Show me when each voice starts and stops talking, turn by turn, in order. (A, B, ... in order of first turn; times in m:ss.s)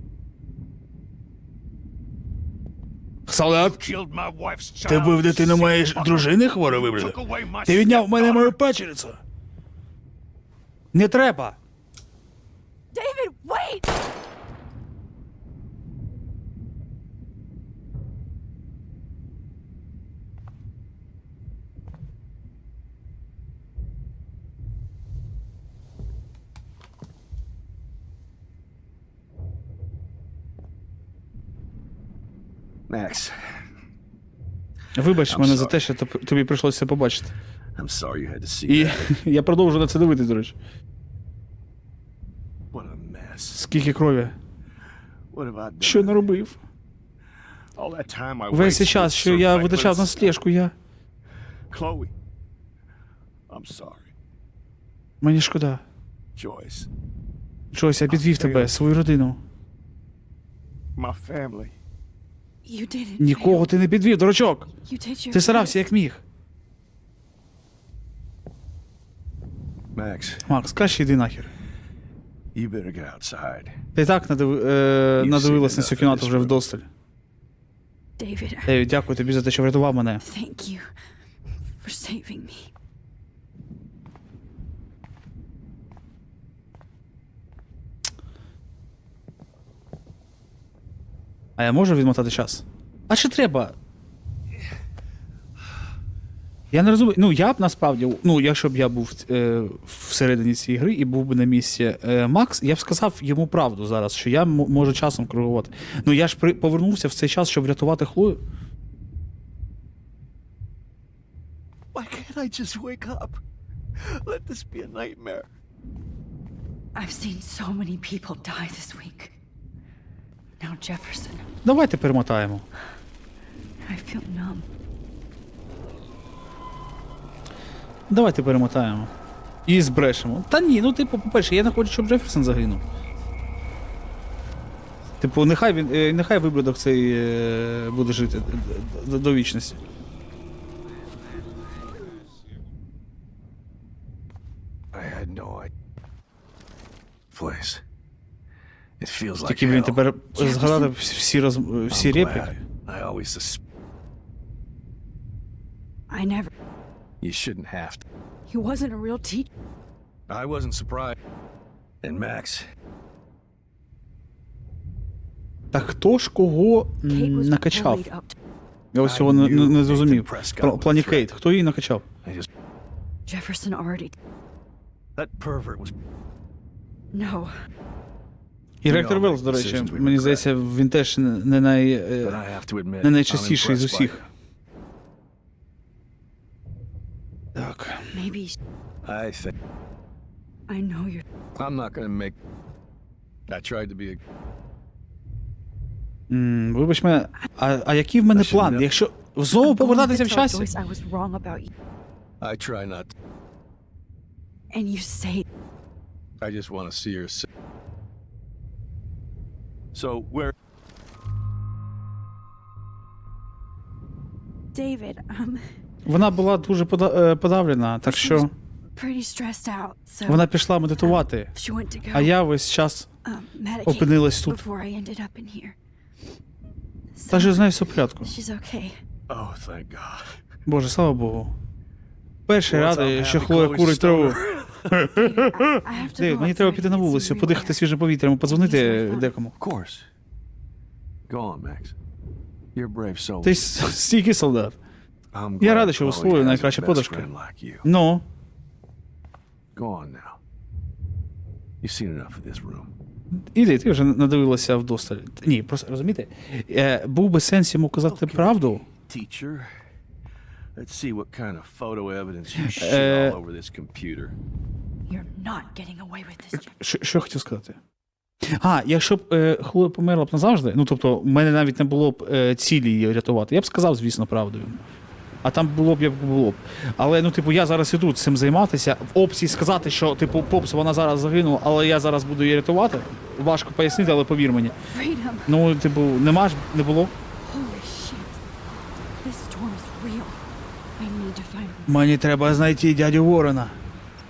0:03.3-0:03.8 A
0:03.6-0:08.6 B
0:04.9-0:09.2 A
0:10.9-0:11.6 A
0:12.9-0:13.9 C
0:32.9-0:33.6 B
0:35.0-0:37.4 A
0:35.3-0:35.8 B
0:37.8-0:39.2 B
0:38.7-0:40.6 A
0:42.7-0:43.6 B
0:43.5-0:44.4 A
0:45.3-0:46.2 B
0:45.8-0:46.6 A
0:47.8-0:50.4 B
0:48.5-0:50.7 A
0:51.7-0:52.1 B
0:53.5-0:54.1 B
0:55.2-0:55.8 A
0:56.4-0:56.9 B
0:57.7-0:59.4 A
0:58.1-0:58.7 B
1:01.0-1:01.8 B
1:02.6-1:03.7 C
1:03.2-1:04.7 A
1:04.8-1:05.9 C
1:05.3-1:06.2 A
1:10.0-1:10.5 B
1:10.4-1:11.5 A
1:12.5-1:13.8 B
1:14.0-1:16.9 A
1:15.2-1:16.6 B
1:18.2-1:18.7 C
1:18.7-1:20.2 A
1:20.2-1:20.9 C
1:21.8-1:22.7 C
1:31.6-1:33.8 A
1:36.7-1:48.4 A
1:51.9-1:53.4 B
1:54.0-1:55.5 B
1:57.0-1:59.3 C
2:00.6-2:01.5 C
2:01.6-2:02.6 A
2:03.8-2:04.7 C
2:08.1-2:09.1 A
2:09.7-2:12.8 A
2:15.2-2:19.8 A
2:24.9-2:25.7 B
2:27.3-2:27.8 B
2:29.0-2:30.0 B
2:29.5-2:32.6 A
2:30.4-2:30.9 C
2:31.9-2:33.6 B
2:36.1-2:36.5 C
2:37.2-2:38.0 B
2:38.5-2:39.5 C
2:40.3-2:41.2 B
2:42.0-2:42.7 B
2:45.7-2:48.1 A
2:47.0-2:48.4 C
2:48.9-2:52.0 A
2:49.0-2:51.3 B
2:53.3-2:54.2 C
2:55.2-2:56.0 B
2:57.1-2:57.5 C
2:58.8-3:02.4 A
2:58.9-3:00.5 B
3:02.2-3:04.2 B
3:03.0-3:04.2 A
3:07.6-3:08.1 A
3:08.1-3:08.6 C
3:09.0-3:09.5 B
3:10.7-3:11.2 C
3:11.6-3:12.4 B
3:13.5-3:14.2 B
3:16.3-3:20.7 A
3:18.3-3:18.9 B
3:19.6-3:21.7 C
3:22.4-3:23.1 B
3:24.7-3:25.5 C
3:26.4-3:27.5 B
3:29.9-3:30.5 B
3:34.7-3:35.7 C
3:36.1-3:38.5 A
3:38.0-3:42.3 C
3:40.3-3:41.5 A
3:42.1-3:43.1 A
3:43.2-3:45.8 C
3:43.8-3:44.6 A
3:47.2-3:47.7 C
3:47.3-3:48.3 A
3:48.2-3:49.0 C
3:49.3-3:50.4 B
3:50.7-3:51.5 A
3:52.5-3:54.4 A
3:52.7-3:55.0 B
3:54.9-3:59.5 A
3:55.1-3:57.8 C
3:58.4-3:59.3 C
3:59.6-4:00.1 B
4:01.3-4:02.0 B
4:02.7-4:03.7 B
4:03.4-4:04.8 A
4:05.3-4:07.9 B
4:05.6-4:07.3 A
4:07.8-4:08.2 A
4:09.7-4:10.4 B
4:11.8-4:12.9 B
4:13.5-4:18.9 A
4:18.1-4:19.7 B
4:20.8-4:24.4 B
4:22.6-4:23.4 A
4:25.1-4:26.8 C
4:26.8-4:27.8 A
4:28.5-4:34.8 A
4:35.4-4:44.8 A
4:44.9-4:45.5 C
4:45.5-4:47.1 A
4:47.4-4:48.4 C
4:49.2-4:50.4 C
4:51.0-4:51.9 C
4:51.9-4:53.8 A